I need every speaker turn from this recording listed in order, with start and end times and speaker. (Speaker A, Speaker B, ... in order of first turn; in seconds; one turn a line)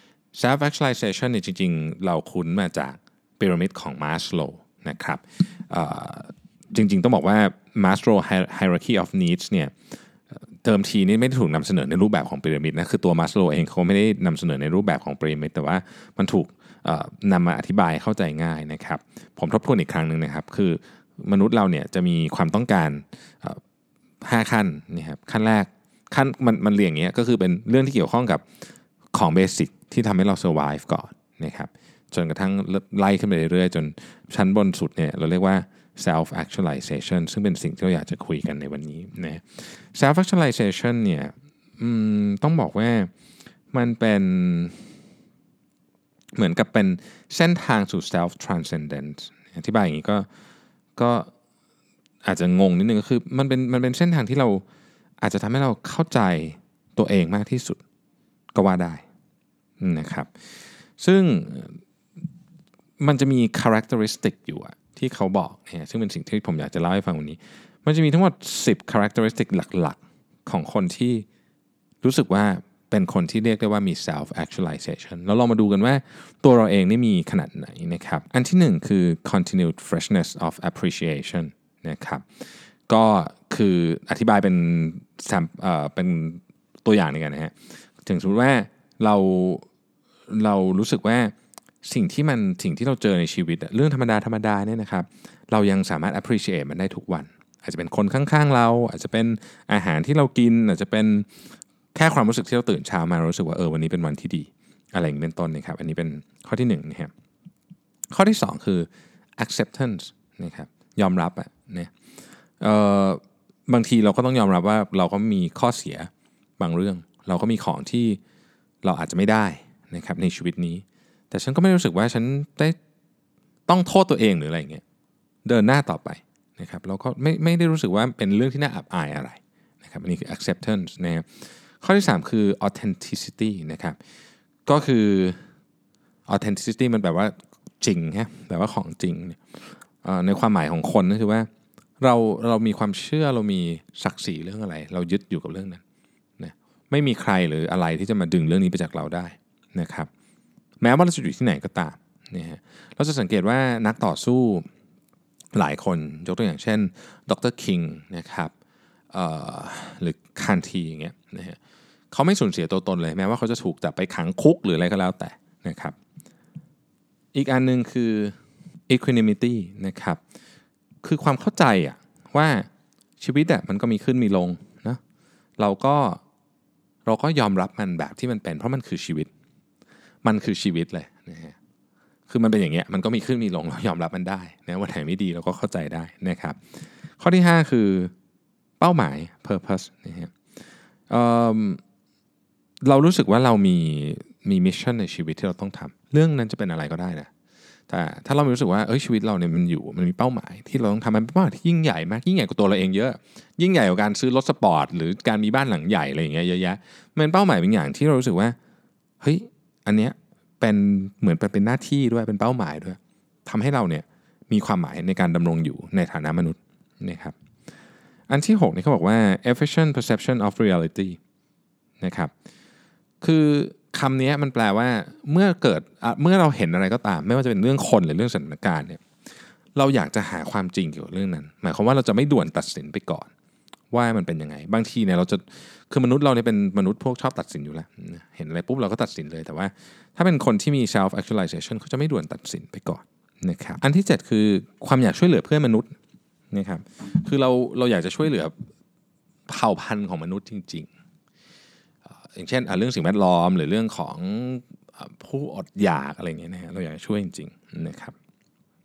Speaker A: 0.3-9.7
Speaker A: 10.3-23.6
Speaker A: 24.2-28.4
Speaker A: 29.1-43.1
Speaker A: 43.7-44.8
Speaker A: 46.3-50.3
Speaker A: 51.0-51.3
Speaker A: 52.2-54.6
Speaker A: 55.2-57.8
Speaker A: 58.5-59.0
Speaker A: 59.8-61.8
Speaker A: 63.0-71.2
Speaker A: 72.0-89.7
Speaker A: 90.3-107.1
Speaker A: 108.1-111.9
Speaker A: 112.6-118.2
Speaker A: 118.8-122.8
Speaker A: 123.7-124.8
Speaker A: 125.4-134.0
Speaker A: 134.7-135.4
Speaker A: 136.3-141.5
Speaker A: 142.0-145.8
Speaker A: 146.4-150.1
Speaker A: 150.8-154.7
Speaker A: 155.5-158.5
Speaker A: 159.1-161.6
Speaker A: 162.1-165.9
Speaker A: 167.3-168.3
Speaker A: 168.9-170.2
Speaker A: 171.0-172.7
Speaker A: 173.2-175.0
Speaker A: 175.6-176.2
Speaker A: 177.0-179.3
Speaker A: 180.2-181.6
Speaker A: 182.3-188.1
Speaker A: 188.8-190.3
Speaker A: 191.1-191.8
Speaker A: 192.8-197.3
Speaker A: 197.9-208.6
Speaker A: 209.2-217.3
Speaker A: 218.3-221.2
Speaker A: 222.0-222.3
Speaker A: 223.2-229.0
Speaker A: 229.7-233.3
Speaker A: 233.9-245.9
Speaker A: 246.5-248.6
Speaker A: 249.5-250.9
Speaker A: 252.1-258.1